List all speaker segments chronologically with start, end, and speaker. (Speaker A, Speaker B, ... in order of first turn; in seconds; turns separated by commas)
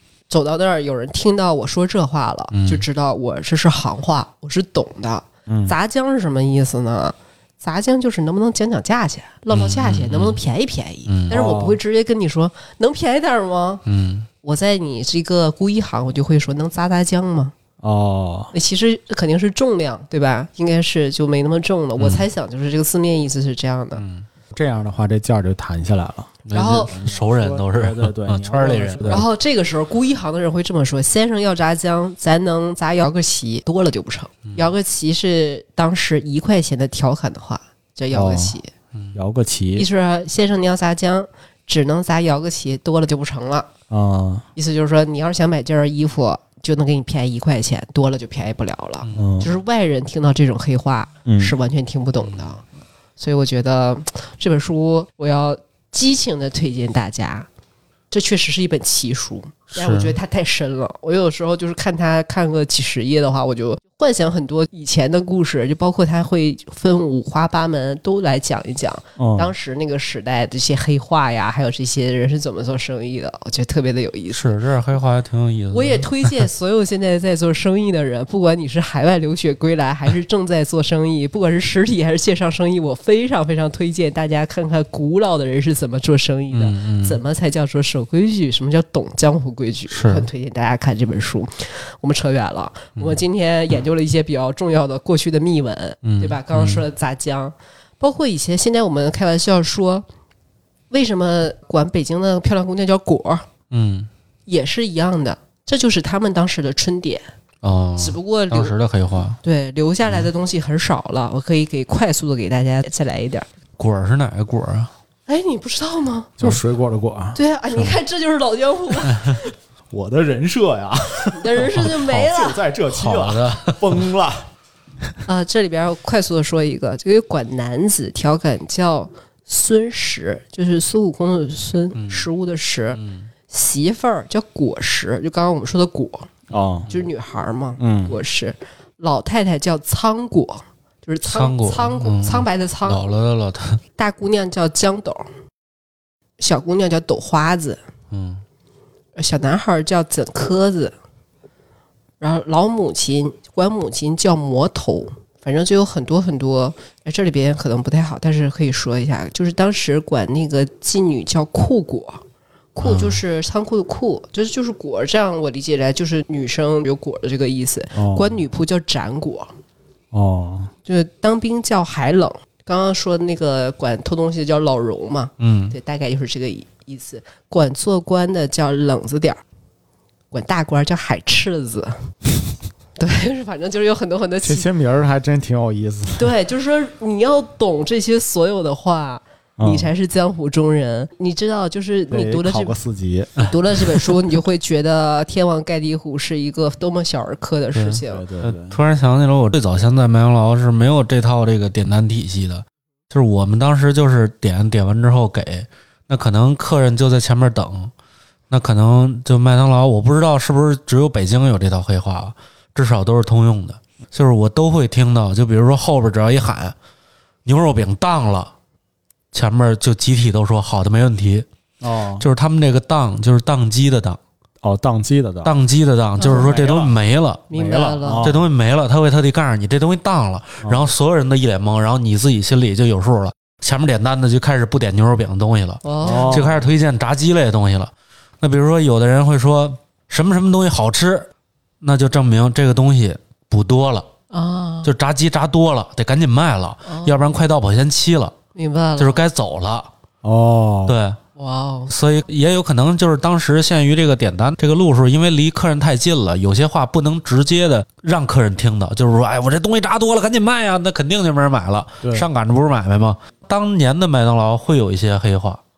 Speaker A: 0.3-13.8, Speaker B: 2.5-2.8, Speaker C: 5.5-5.7, Speaker B: 9.5-10.4, Speaker B: 11.1-11.3, Speaker C: 11.3-11.8, Speaker B: 13.9-14.3, Speaker A: 14.4-17.5, Speaker C: 17.8-18.5, Speaker A: 18.5-24.0, Speaker B: 22.0-22.3, Speaker B: 23.9-24.3, Speaker C: 24.5-29.3, Speaker B: 26.4-29.3, Speaker A: 26.5-26.9, Speaker A: 29.1-38.7, Speaker C: 38.1-38.6, Speaker C: 39.1-39.9, Speaker A: 39.8-43.7, Speaker C: 43.9-44.5, Speaker A: 44.5-52.6, Speaker C: 49.2-49.5, Speaker C: 51.3-51.5, Speaker A: 53.2-57.5, Speaker A: 58.1-74.4, Speaker B: 59.7-60.2, Speaker C: 69.2-69.5, Speaker B: 74.3-76.3, Speaker A: 75.7-100.0, Speaker B: 86.5-87.2, Speaker B: 89.9-90.3, Speaker B: 96.0-96.8, Speaker A: 100.9-103.5, Speaker B: 103.7-104.1, Speaker A: 104.5-107.3, Speaker B: 107.6-109.4, Speaker A: 108.0-108.8, Speaker A: 109.4-113.5, Speaker B: 113.8-114.9, Speaker A: 115.3-116.4, Speaker C: 116.4-117.4, Speaker A: 117.3-119.5, Speaker C: 119.9-124.5, Speaker A: 121.3-122.6, Speaker B: 122.9-124.0, Speaker A: 125.3-136.3, Speaker B: 131.9-132.3, Speaker B: 132.9-133.3, Speaker C: 136.5-136.9, Speaker A: 136.9-143.0, Speaker C: 137.8-138.2, Speaker B: 141.2-143.8, Speaker A: 144.0-145.3, Speaker A: 146.4-147.8, Speaker B: 148.1-148.4, Speaker A: 149.2-150.9, Speaker A: 152.2-162.2, Speaker A: 162.7-169.5, Speaker B: 162.8-163.1, Speaker C: 167.9-168.4, Speaker C: 170.1-170.7, Speaker A: 170.9-179.4, Speaker B: 175.4-175.7, Speaker A: 180.3-182.1, Speaker A: 183.0-184.7, Speaker C: 184.4-186.3, Speaker A: 186.2-192.7, Speaker C: 189.6-189.9, Speaker C: 192.1-193.4, Speaker A: 193.4-198.2, Speaker B: 197.7-207.9, Speaker C: 198.1-198.8, Speaker B: 208.5-216.7, Speaker B: 217.4-218.5, Speaker B: 219.3-221.4, Speaker C: 221.8-222.3, Speaker B: 222.2-224.2, Speaker C: 224.6-225.5, Speaker B: 225.4-227.4, Speaker A: 226.2-226.5, Speaker C: 226.2-227.0, Speaker A: 227.5-228.3, Speaker C: 227.5-228.4, Speaker B: 228.2-241.3, Speaker A: 235.8-236.4, Speaker C: 236.0-236.7, Speaker B: 241.8-244.1, Speaker A: 244.3-244.9, Speaker B: 244.8-248.3, Speaker A: 246.8-247.2, Speaker A: 248.6-249.2, Speaker B: 249.0-249.9, Speaker C: 250.2-251.0, Speaker B: 250.9-251.2, Speaker A: 251.4-251.9, Speaker B: 251.9-265.6, Speaker C: 262.0-262.3